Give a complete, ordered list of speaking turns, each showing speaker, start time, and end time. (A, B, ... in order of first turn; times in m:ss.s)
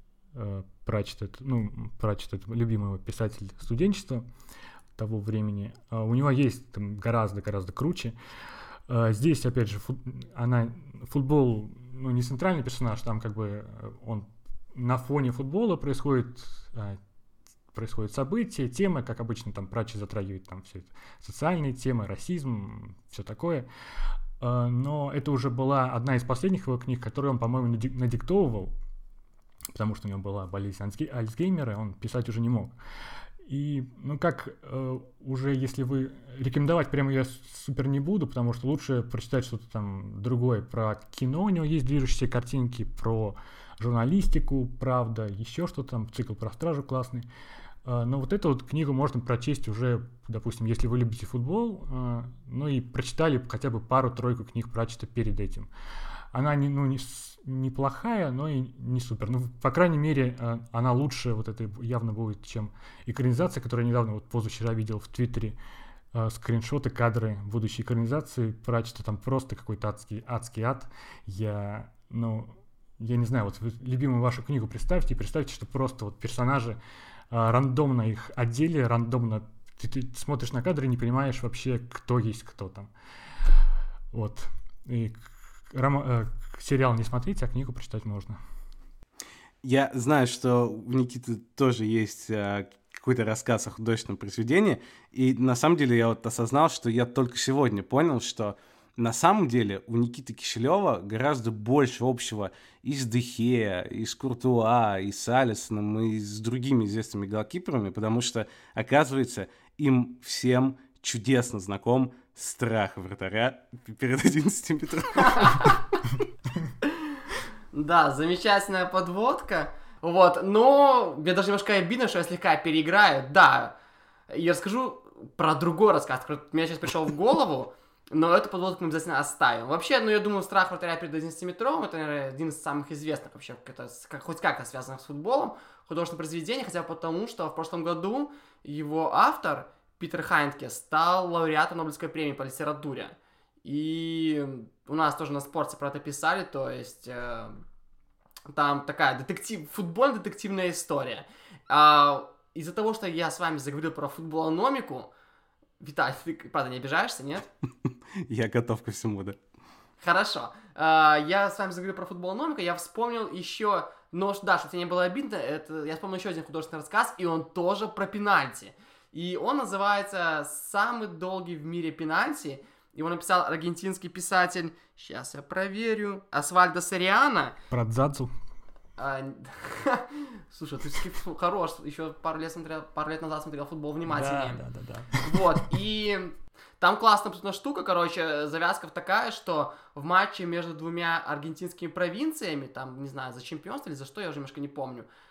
0:00.4-0:04.3 A
0:05.0-0:08.2 A
0:08.9-0:17.0 A
0:17.7-0:23.7 A
0:24.4-0:28.8 A
0:29.7-0:32.7 A
0:33.5-0:47.3 A
0:47.8-0:55.7 A
0:56.3-1:05.6 A
1:06.1-1:16.8 A
1:17.3-1:22.9 A
1:24.1-1:28.4 A
1:29.6-1:55.8 B
1:57.7-2:03.8 C
2:04.3-2:27.6 C
2:28.5-2:35.1 C
2:35.8-2:37.5 C
2:37.9-2:39.4 B
2:40.0-2:57.6 C
2:57.7-2:58.3 A
2:59.0-3:04.6 C
3:04.1-3:05.6 A
3:05.2-3:15.1 C